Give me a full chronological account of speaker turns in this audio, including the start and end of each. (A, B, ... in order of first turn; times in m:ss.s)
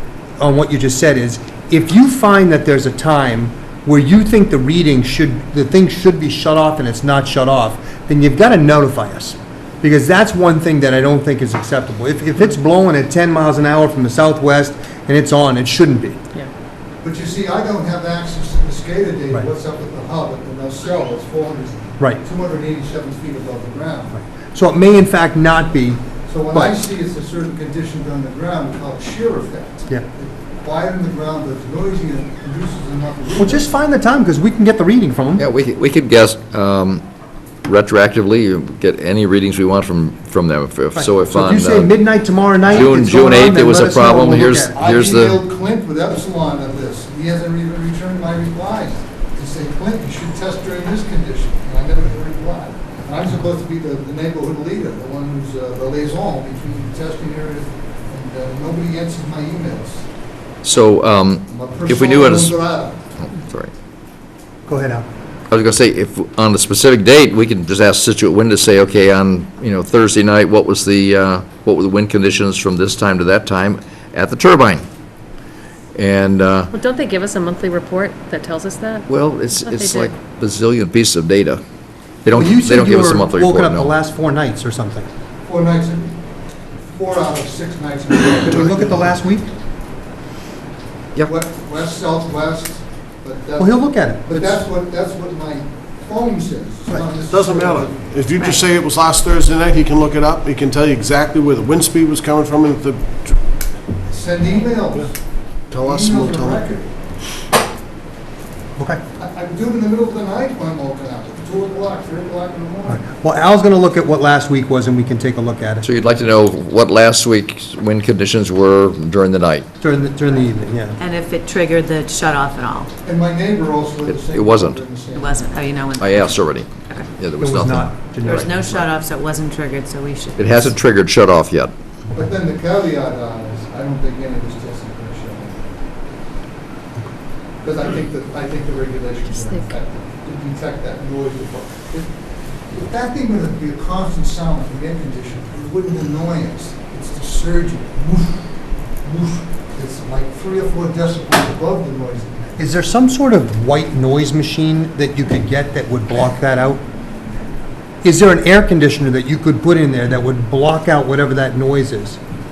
0:00.4-0:16.2 A
0:17.0-0:24.2 B
0:24.1-0:26.8 A
0:26.3-0:33.7 B
0:33.4-0:35.4 A
0:35.4-0:37.0 C
0:37.6-0:41.9 C
0:41.0-0:44.8 A
0:42.7-0:45.4 C
0:44.7-1:00.1 B
1:00.6-1:02.6 C
1:01.5-1:03.0 B
1:03.3-1:03.7 C
1:04.7-1:05.0 A
1:05.5-1:14.8 C
1:16.0-1:16.7 C
1:16.7-1:20.2 D
1:19.1-1:21.6 C
1:22.2-1:23.9 C
1:22.3-1:25.1 A
1:25.4-1:26.2 B
1:26.9-1:29.2 B
1:28.4-1:29.5 A
1:31.2-1:38.1 B
1:33.6-1:34.6 A
1:37.3-1:43.4 E
1:44.1-1:45.1 B
1:45.7-1:46.7 E
1:45.8-1:46.9 B
1:49.2-1:53.0 B
1:52.9-1:55.9 A
1:55.8-1:59.7 C
1:59.8-2:01.0 A
2:01.0-2:02.9 F
2:03.0-2:05.5 B
2:04.1-2:05.0 C
2:05.1-2:06.2 F
2:05.9-2:08.7 C
2:07.4-2:08.9 A
2:08.2-2:10.4 F
2:10.4-2:11.7 C
2:12.1-2:15.6 B
2:17.6-2:22.1 B
2:19.3-2:19.7 D
2:22.7-2:28.5 B
2:29.0-2:32.6 B
2:32.6-2:36.8 A
2:38.0-2:42.2 A